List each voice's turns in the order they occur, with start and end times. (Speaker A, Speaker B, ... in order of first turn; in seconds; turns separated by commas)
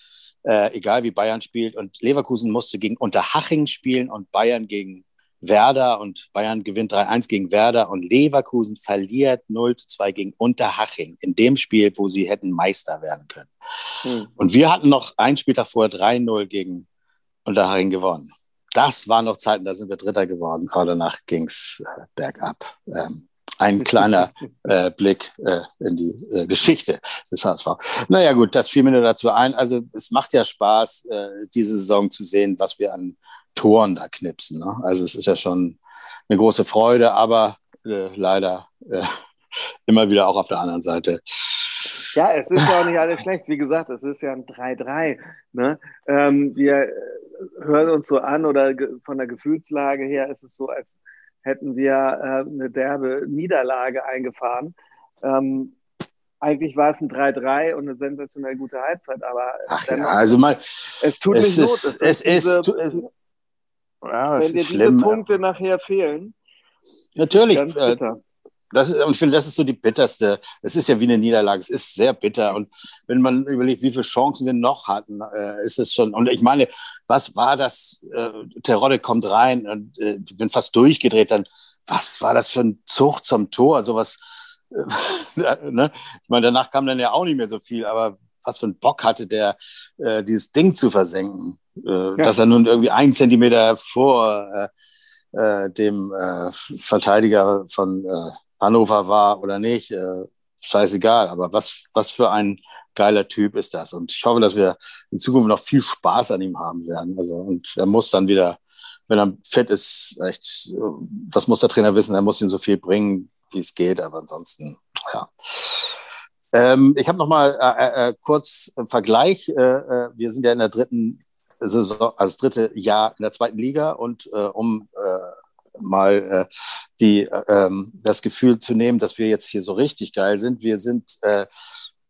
Speaker A: 0.5-16.9, Speaker B: 14.1-14.3, Speaker A: 17.4-42.1, Speaker B: 42.1-55.7, Speaker B: 56.4-60.5, Speaker A: 59.7-63.0, Speaker B: 61.0-63.0, Speaker A: 64.0-65.2, Speaker B: 64.4-66.3, Speaker A: 67.2-68.0, Speaker B: 67.2-68.2, Speaker A: 68.7-94.7, Speaker A: 95.3-131.5